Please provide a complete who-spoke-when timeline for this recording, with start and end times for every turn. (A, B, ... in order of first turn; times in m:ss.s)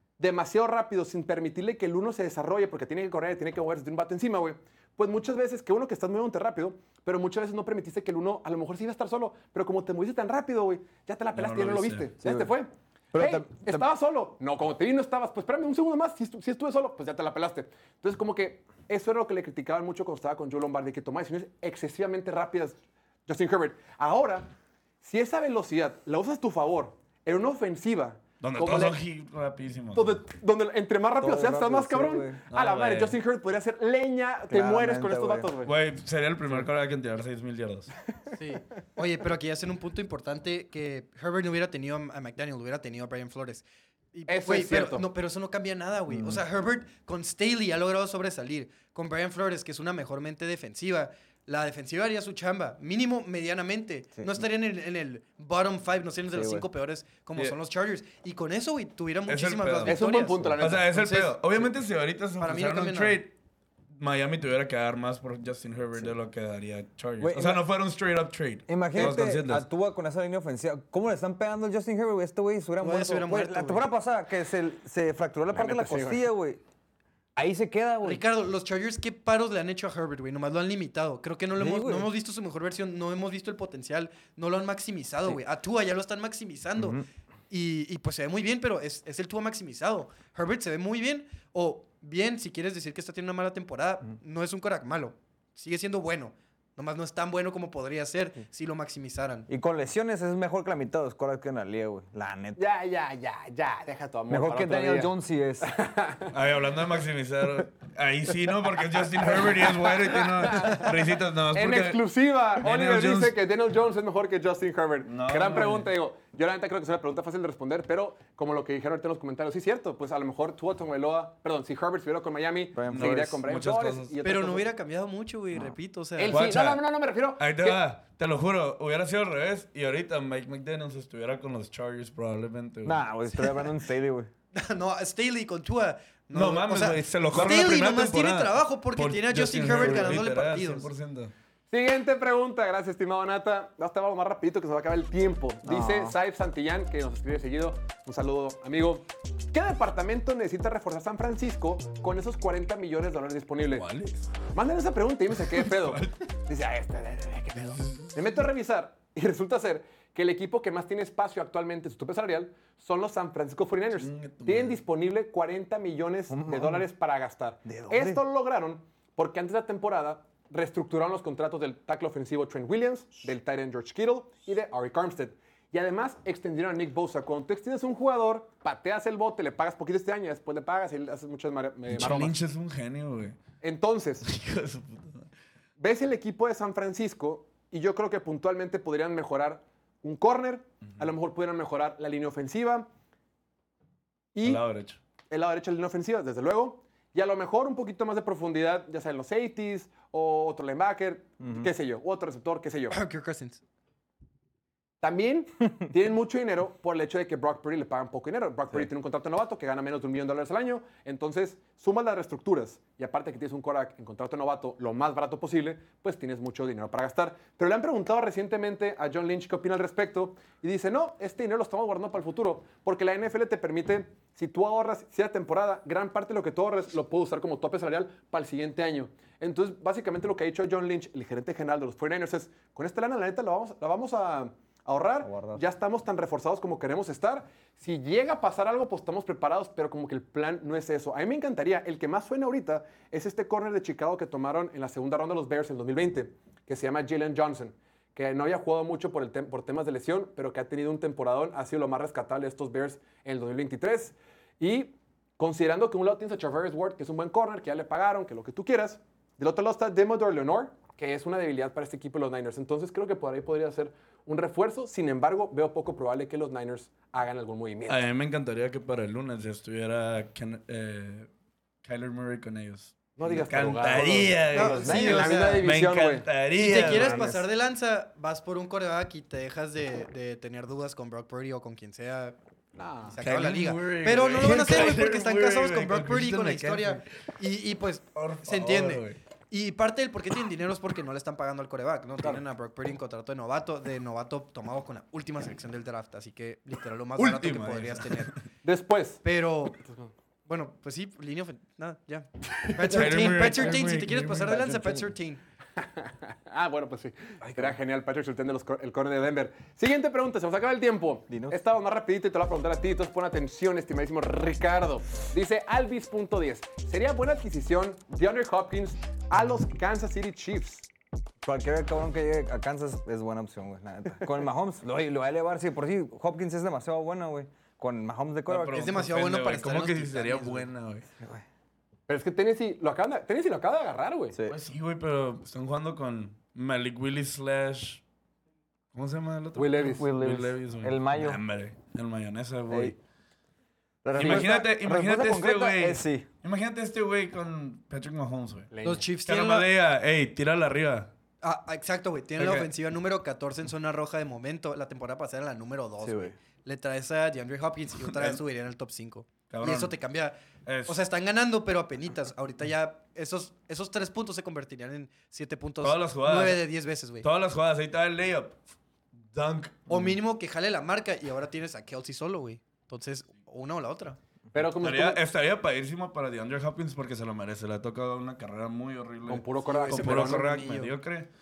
0:00.2-0:29.0 A
0:11.3-0:12.1 B
0:12.2-0:12.5 C
0:13.1-0:13.8 C
0:28.4-0:30.2 B
0:29.9-0:35.7 A
0:31.2-0:32.4 C
0:32.5-0:33.2 B
0:34.5-0:35.5 C
0:35.6-0:37.9 B
0:38.4-1:01.7 D
0:44.3-0:45.1 A
0:46.1-0:46.4 C
0:54.2-0:54.4 C
0:56.3-0:56.7 C
0:59.3-1:00.0 B
0:59.8-1:00.9 A
1:00.6-1:03.3 B
1:02.4-1:03.2 D
1:04.0-1:09.6 B
1:07.2-1:07.6 C
1:08.7-1:16.6 C
1:12.8-1:13.8 D
1:15.5-1:16.2 A
1:17.4-1:18.2 C
1:18.0-1:39.5 D
1:21.6-1:22.1 C
1:26.8-1:27.1 C
1:39.5-1:42.6 C
1:42.6-1:46.3 A
1:44.3-1:45.7 C
1:46.3-1:52.0 B
1:49.2-1:50.9 A
1:51.5-2:04.7 A
1:52.6-1:53.3 B
1:55.1-1:55.9 B
2:02.8-2:03.4 C
2:02.9-2:04.2 B
2:04.2-2:06.4 D
2:06.2-2:07.8 A
2:06.3-2:06.8 B
2:07.4-2:13.0 B
2:12.8-2:14.3 C
2:14.5-2:20.9 D
2:16.3-2:21.3 B
2:21.7-2:33.9 A
2:25.6-2:26.2 C
2:33.8-2:34.3 B
2:34.5-3:02.4 A
2:35.4-2:36.2 B
2:37.8-2:38.1 B
2:44.0-2:44.8 B
2:46.3-2:46.8 C
2:47.6-2:48.2 C
3:01.9-3:03.4 B
3:03.6-3:04.3 A
3:04.2-3:05.3 B
3:05.8-3:12.9 A
3:14.3-3:14.6 A
3:14.4-3:15.0 B
3:15.3-3:23.0 A
3:21.4-3:21.7 C
3:22.9-3:23.6 D
3:25.0-4:28.0 A
3:55.2-3:55.6 C
4:27.9-4:31.3 B
4:31.8-4:37.3 B
4:33.2-4:37.4 A
4:34.5-4:35.7 D
4:36.6-4:42.4 D
4:42.8-4:43.2 A
4:43.1-4:58.3 D
4:43.2-4:47.1 B
4:48.2-4:49.2 B
4:57.2-4:58.4 B
4:58.6-4:59.2 A
4:59.2-4:59.8 D
4:59.8-5:00.1 A
5:00.5-5:05.4 D
5:02.6-5:05.0 B
5:04.6-5:05.1 C
5:05.8-5:20.9 A
5:07.4-5:07.7 C
5:11.3-5:11.6 C
5:21.4-5:28.9 C
5:28.5-5:31.1 B
5:28.8-5:30.7 D
5:32.1-5:34.4 A
5:34.5-5:38.0 B
5:38.9-5:43.0 B
5:39.6-5:40.1 A
5:40.0-5:41.4 C
5:42.7-5:42.9 C
5:44.0-5:46.3 C
5:44.2-5:48.7 B
5:48.7-5:49.1 A
5:48.8-5:49.7 D
5:49.2-5:51.1 B
5:51.4-6:07.3 D
5:52.4-5:52.7 B
5:56.0-5:56.3 B
5:58.1-5:58.4 B
5:59.5-6:00.0 B
6:00.7-6:01.0 B
6:05.8-6:06.6 B
6:07.2-6:08.6 B
6:09.3-6:10.1 B
6:09.9-6:14.2 D
6:14.5-6:15.2 A
6:14.8-6:21.3 B
6:19.3-6:20.5 A
6:19.7-6:20.9 D